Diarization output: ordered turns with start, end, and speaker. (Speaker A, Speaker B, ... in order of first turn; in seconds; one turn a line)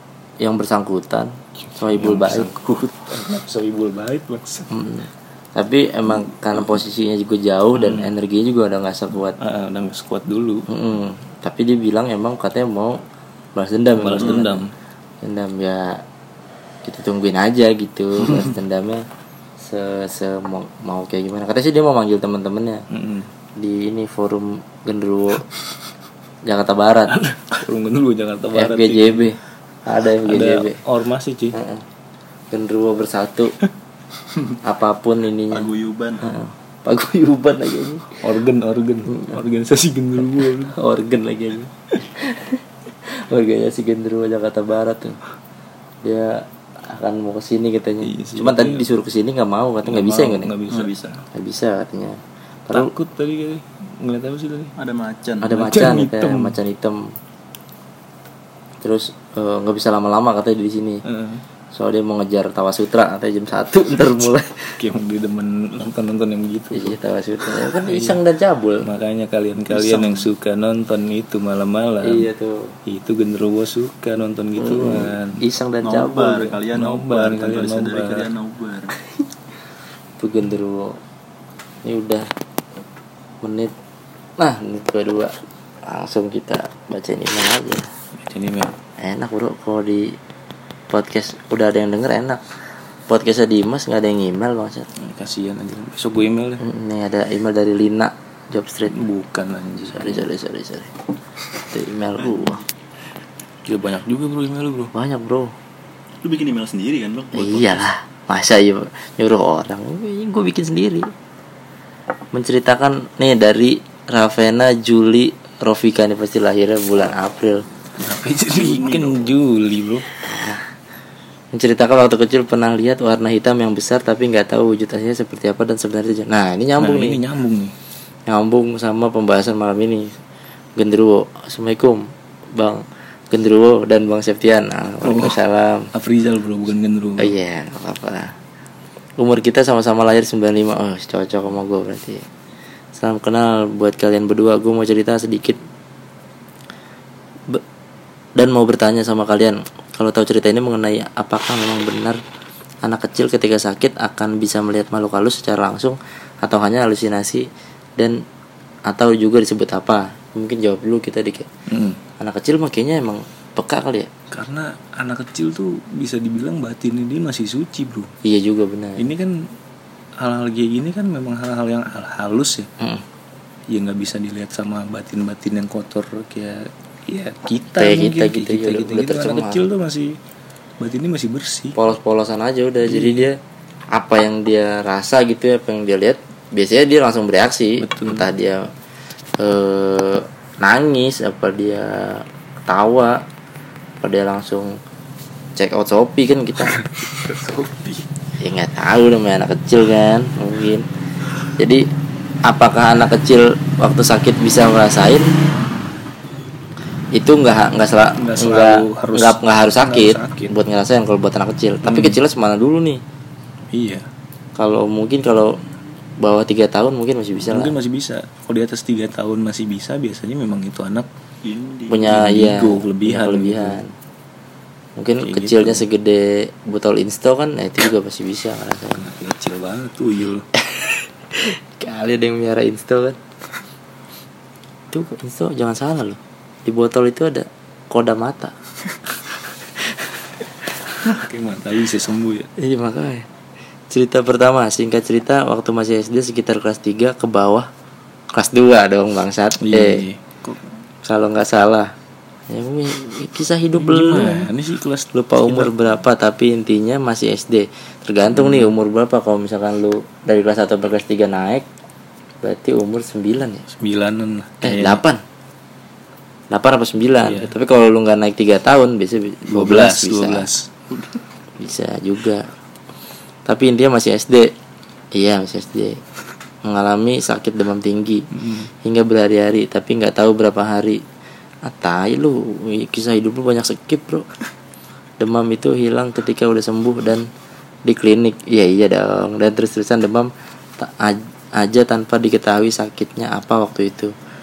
Speaker A: 0.4-2.5
Speaker B: 1.7-4.8
Speaker A: 4.7-9.4
Speaker B: 6.1-6.6
Speaker B: 7.7-8.1
Speaker B: 9.4-10.7
Speaker A: 10.7-13.0
Speaker A: 13.5-14.6
Speaker B: 13.9-14.7
Speaker A: 15.2-16.0
Speaker A: 16.8-19.0
Speaker B: 18.2-18.5
Speaker A: 19.6-22.9
Speaker B: 22.9-23.3
Speaker A: 23.6-25.5
Speaker A: 26.4-27.2
Speaker B: 27.1-29.3
Speaker A: 28.5-30.8
Speaker B: 30.2-31.6
Speaker A: 31.5-31.8
Speaker A: 32.5-33.5
Speaker A: 34.6-35.7
Speaker C: 35.5-36.2
Speaker A: 36.2-38.2
Speaker B: 38.2-40.7
Speaker A: 40.7-45.2
Speaker A: 46.0-50.5
Speaker B: 48.0-48.9
Speaker B: 49.8-51.0
Speaker C: 50.7-51.2
Speaker A: 51.3-52.9
Speaker B: 52.7-54.7
Speaker C: 54.8-55.6
Speaker A: 55.4-57.1
Speaker B: 55.5-56.6
Speaker A: 58.8-61.0
Speaker B: 61.0-61.4
Speaker A: 61.7-64.8
Speaker B: 64.8-67.0
Speaker A: 66.7-68.9
Speaker B: 67.5-68.2
Speaker B: 68.8-72.3
Speaker C: 69.7-70.2
Speaker A: 72.0-72.7
Speaker B: 72.8-75.4
Speaker A: 74.6-76.6
Speaker C: 75.8-78.9
Speaker B: 76.7-78.3
Speaker A: 80.2-81.0
Speaker A: 81.8-82.3
Speaker A: 83.4-83.7
Speaker A: 84.4-85.3
Speaker A: 85.8-87.9
Speaker B: 88.2-88.8
Speaker A: 89.0-90.2
Speaker A: 90.9-92.4
Speaker A: 93.1-94.9
Speaker B: 95.0-96.6
Speaker A: 96.6-99.0
Speaker B: 98.9-100.2
Speaker A: 99.8-100.9
Speaker A: 101.7-102.6
Speaker C: 102.3-102.6
Speaker B: 103.6-104.9
Speaker A: 104.9-105.5
Speaker C: 106.2-107.8
Speaker A: 107.3-111.1
Speaker A: 112.3-117.6
Speaker B: 118.0-120.0
Speaker C: 118.5-119.3
Speaker A: 120.2-120.7
Speaker A: 121.5-127.2
Speaker B: 126.8-127.7
Speaker A: 128.3-130.1
Speaker A: 130.8-135.9
Speaker B: 135.0-135.4
Speaker B: 135.9-137.3
Speaker A: 137.2-138.3
Speaker A: 139.2-142.2
Speaker A: 142.9-145.6
Speaker A: 148.3-152.2
Speaker A: 152.8-158.2
Speaker A: 158.9-161.5
Speaker B: 161.7-162.0
Speaker A: 162.2-164.1
Speaker B: 164.3-168.1
Speaker A: 168.2-169.1
Speaker B: 169.0-169.4
Speaker B: 170.2-172.7
Speaker B: 173.7-180.2
Speaker A: 177.8-179.6
Speaker B: 180.8-181.8
Speaker A: 181.7-183.4
Speaker B: 182.8-183.3
Speaker A: 183.9-188.7
Speaker B: 187.8-188.3
Speaker A: 189.4-193.2
Speaker A: 194.0-194.8
Speaker A: 195.6-196.8
Speaker B: 196.7-198.1
Speaker A: 198.4-200.8
Speaker A: 201.6-201.8
Speaker A: 202.4-205.3
Speaker A: 207.1-213.0
Speaker B: 208.2-210.5
Speaker B: 211.8-212.2
Speaker B: 213.7-214.1
Speaker A: 214.6-215.6
Speaker A: 216.2-217.7
Speaker B: 217.4-221.1
Speaker C: 221.4-222.1
Speaker A: 221.9-223.9
Speaker B: 222.0-223.8
Speaker A: 225.0-229.1
Speaker B: 225.2-225.8
Speaker B: 228.9-230.4
Speaker A: 230.6-233.2
Speaker A: 234.9-238.5
Speaker B: 241.0-242.5
Speaker A: 242.6-243.3
Speaker A: 243.9-247.7
Speaker A: 248.3-250.0
Speaker B: 249.6-250.6
Speaker A: 251.0-251.9
Speaker A: 252.5-254.5
Speaker B: 253.7-255.7
Speaker A: 255.1-261.7
Speaker B: 258.3-258.7
Speaker A: 262.4-263.6
Speaker B: 263.7-265.0
Speaker A: 264.6-265.2
Speaker A: 266.5-270.5
Speaker B: 267.2-267.5
Speaker B: 269.4-270.8
Speaker A: 271.6-272.5
Speaker A: 273.4-274.5
Speaker A: 275.1-276.0
Speaker A: 276.6-281.0
Speaker B: 278.3-278.7
Speaker A: 281.6-284.3
Speaker A: 285.2-287.3
Speaker A: 287.9-294.1